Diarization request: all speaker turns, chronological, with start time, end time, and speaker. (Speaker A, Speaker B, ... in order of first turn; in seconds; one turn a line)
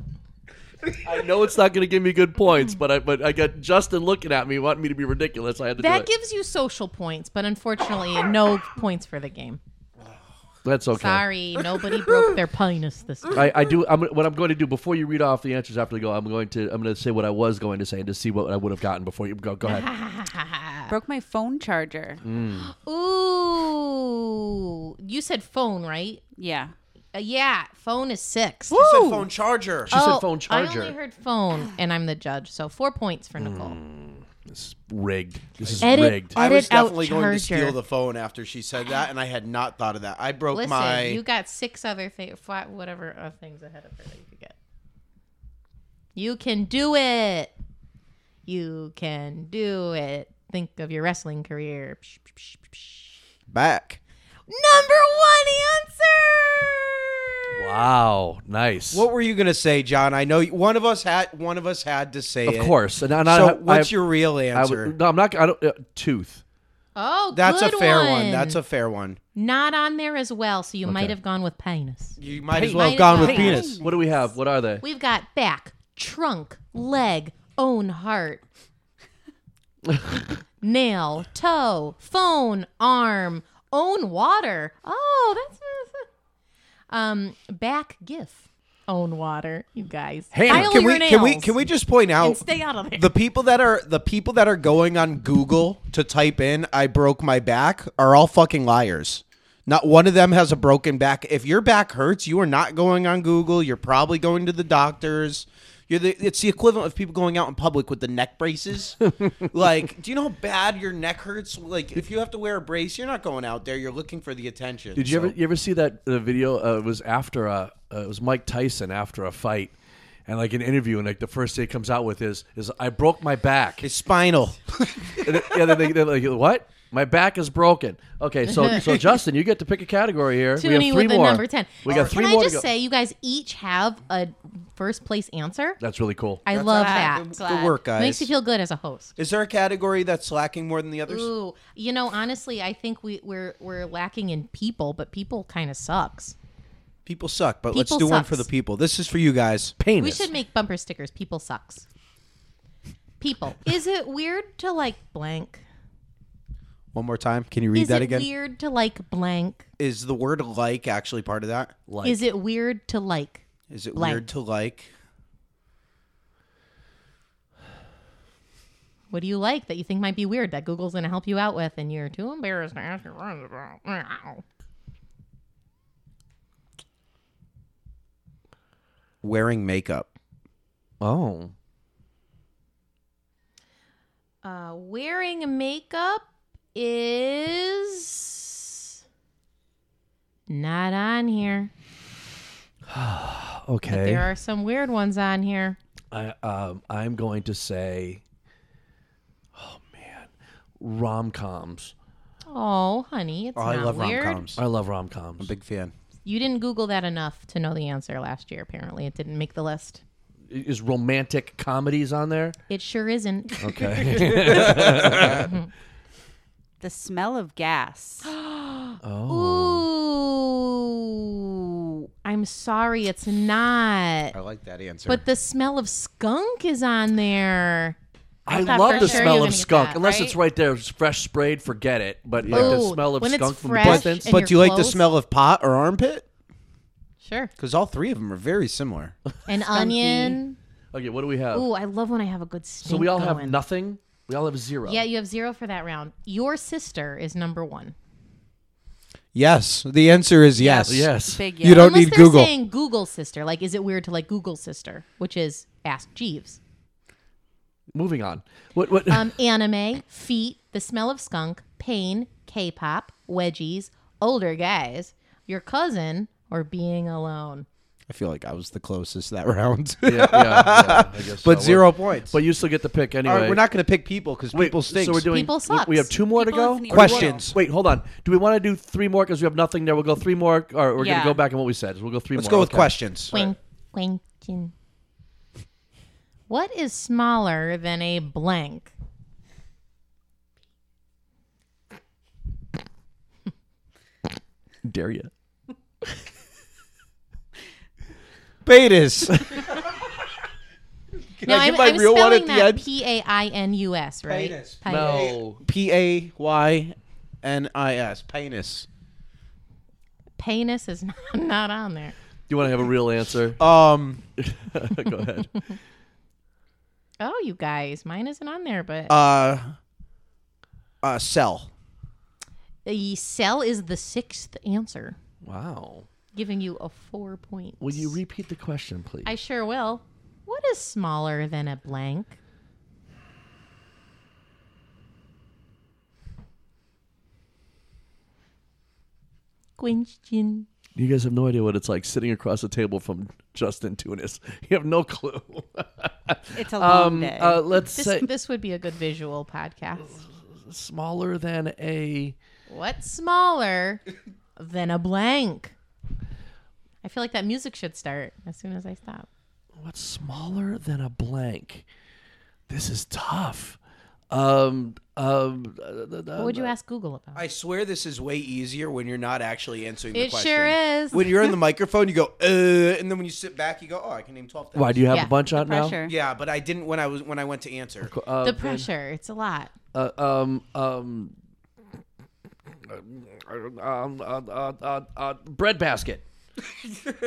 Speaker A: 1.0-6.1
Speaker B: 5.8-9.6
Speaker A: 10.6-11.3
Speaker B: 10.9-13.5
Speaker A: 13.3-19.9
Speaker B: 19.6-20.9
Speaker C: 20.9-22.2
Speaker A: 22.2-22.7
Speaker B: 22.6-26.2
Speaker C: 26.4-26.7
Speaker B: 27.1-28.8
Speaker C: 28.7-29.3
Speaker D: 28.7-30.0
Speaker A: 29.9-30.9
Speaker B: 29.9-33.8
Speaker A: 33.4-36.4
Speaker D: 35.6-41.2
Speaker B: 35.8-37.8
Speaker B: 40.5-44.5
Speaker B: 46.1-47.5
Speaker B: 48.5-53.2
Speaker D: 53.5-54.0
Speaker B: 54.5-57.8
Speaker A: 57.5-59.1
Speaker D: 58.9-64.9
Speaker A: 62.5-63.9
Speaker A: 64.5-66.4
Speaker B: 67.0-68.6
Speaker D: 67.3-69.2
Speaker B: 69.3-73.8
Speaker A: 70.8-71.1
Speaker D: 72.2-73.8
Speaker A: 72.5-74.8
Speaker C: 73.1-74.2
Speaker B: 74.8-78.4
Speaker A: 79.9-80.2
Speaker B: 80.6-86.1
Speaker B: 86.9-91.5
Speaker A: 90.3-90.8
Speaker D: 90.5-109.0
Speaker B: 92.2-93.1
Speaker D: 109.5-115.3
Speaker A: 114.9-123.9
Speaker D: 123.8-125.9
Speaker A: 125.2-132.7
Speaker B: 130.6-135.8
Speaker D: 131.9-132.2
Speaker A: 135.8-136.4
Speaker B: 136.4-139.2
Speaker D: 136.5-138.3
Speaker C: 136.7-137.8
Speaker D: 139.2-141.3
Speaker B: 141.1-146.3
Speaker D: 147.1-149.8
Speaker B: 147.7-148.5
Speaker A: 149.8-150.3
Speaker B: 150.0-151.8
Speaker B: 153.2-155.6
Speaker D: 156.9-158.3
Speaker B: 157.7-159.7
Speaker D: 159.8-161.7
Speaker A: 161.9-162.2
Speaker B: 162.0-163.4
Speaker D: 163.7-164.9
Speaker B: 163.9-164.2
Speaker B: 169.1-174.4
Speaker D: 179.2-180.1
Speaker A: 181.0-181.5
Speaker B: 184.4-188.9
Speaker B: 190.5-191.7
Speaker A: 192.9-194.3
Speaker B: 193.9-195.8
Speaker A: 196.1-198.2
Speaker A: 199.5-201.9
Speaker B: 202.5-204.4
Speaker D: 203.6-204.6
Speaker A: 204.6-205.5
Speaker D: 205.4-205.9
Speaker B: 206.2-210.0
Speaker A: 210.5-212.6
Speaker B: 212.7-214.4
Speaker A: 213.6-215.5
Speaker D: 214.4-215.4
Speaker B: 215.2-215.7
Speaker C: 216.8-218.3
Speaker B: 218.2-224.3
Speaker A: 219.0-219.9
Speaker D: 224.3-225.2
Speaker B: 225.1-230.0
Speaker A: 228.4-234.4
Speaker C: 228.5-230.4
Speaker D: 232.4-232.9
Speaker B: 232.5-235.1
Speaker D: 233.8-236.2
Speaker B: 237.2-237.5
Speaker D: 237.6-239.1
Speaker B: 239.5-240.6
Speaker C: 239.7-240.4
Speaker A: 240.9-241.7
Speaker B: 241.5-243.6
Speaker A: 242.8-245.0
Speaker B: 244.8-247.9
Speaker D: 249.3-252.5
Speaker A: 250.8-251.4
Speaker C: 251.2-251.9
Speaker B: 251.7-256.6
Speaker A: 257.9-259.3
Speaker B: 259.1-267.6
Speaker D: 268.1-272.4
Speaker A: 270.1-273.6
Speaker D: 273.2-275.3
Speaker A: 274.5-282.9
Speaker B: 275.3-276.1
Speaker C: 276.4-277.4
Speaker D: 276.9-277.6
Speaker C: 281.0-281.4
Speaker D: 282.3-283.3
Speaker B: 283.3-284.7
Speaker B: 286.5-288.9
Speaker A: 294.8-295.3
Speaker D: 298.6-299.6
Speaker D: 301.3-302.8
Speaker B: 301.4-305.4
Speaker D: 304.3-308.9
Speaker A: 304.9-305.6
Speaker B: 310.4-312.1
Speaker A: 312.5-313.6
Speaker D: 313.6-314.2
Speaker A: 314.4-315.5
Speaker B: 317.2-319.1
Speaker D: 319.1-319.7
Speaker D: 321.0-321.7
Speaker B: 322.9-325.2
Speaker A: 325.4-326.1
Speaker B: 326.3-328.2
Speaker A: 327.8-329.3
Speaker B: 329.2-332.4
Speaker B: 339.8-340.7
Speaker A: 340.9-348.3
Speaker C: 346.5-347.6
Speaker B: 347.9-350.2
Speaker A: 350.5-352.4
Speaker B: 352.7-354.0
Speaker B: 354.6-355.7
Speaker B: 357.0-359.3
Speaker A: 359.8-361.8
Speaker A: 362.7-363.8
Speaker A: 364.3-366.7
Speaker B: 366.4-367.4
Speaker D: 367.3-375.2
Speaker B: 370.1-371.5
Speaker A: 374.7-376.0
Speaker C: 375.5-376.1
Speaker D: 376.0-378.1
Speaker A: 378.0-378.9
Speaker B: 378.4-379.7
Speaker A: 379.9-381.3
Speaker A: 382.8-386.2